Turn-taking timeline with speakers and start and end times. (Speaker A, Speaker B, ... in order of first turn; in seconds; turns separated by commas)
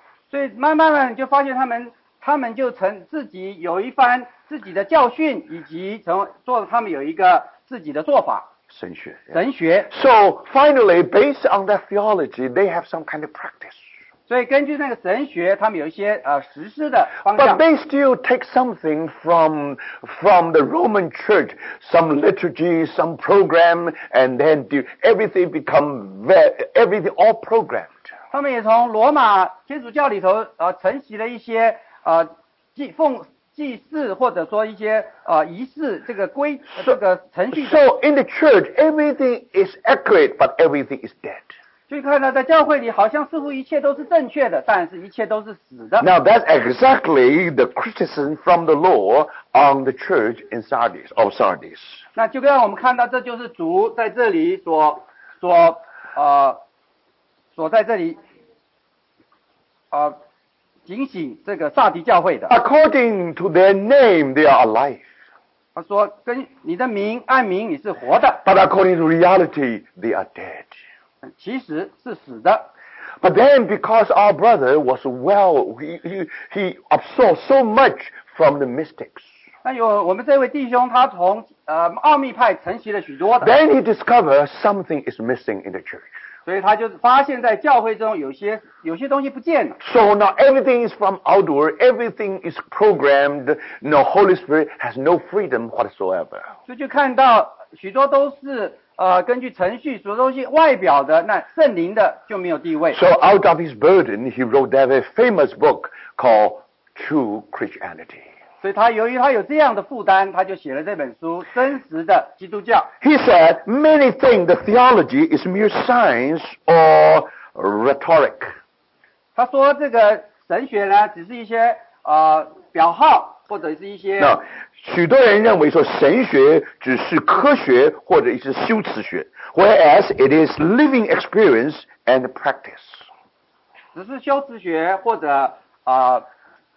Speaker A: 0.3-8.5, Speaker B: 8.7-13.8, Speaker A: 9.3-9.9, Speaker A: 14.3-17.6, Speaker B: 17.3-28.0, Speaker A: 28.3-37.8, Speaker B: 37.5-41.5, Speaker A: 41.9-46.1, Speaker B: 46.0-52.0, Speaker A: 52.1-56.6, Speaker A: 57.5-58.2, Speaker A: 60.9-62.6, Speaker B: 62.5-65.1, Speaker A: 65.8-68.4, Speaker B: 68.4-70.7, Speaker A: 71.4-72.7, Speaker B: 73.2-79.2, Speaker A: 79.6-83.5, Speaker B: 83.4-86.1, Speaker A: 86.5-89.8, Speaker B: 89.8-96.5, Speaker A: 96.7-103.0, Speaker B: 102.9-108.3, Speaker A: 108.6-112.9, Speaker B: 113.0-118.5, Speaker A: 119.3-124.4, Speaker B: 124.2-133.1, Speaker A: 133.9-136.2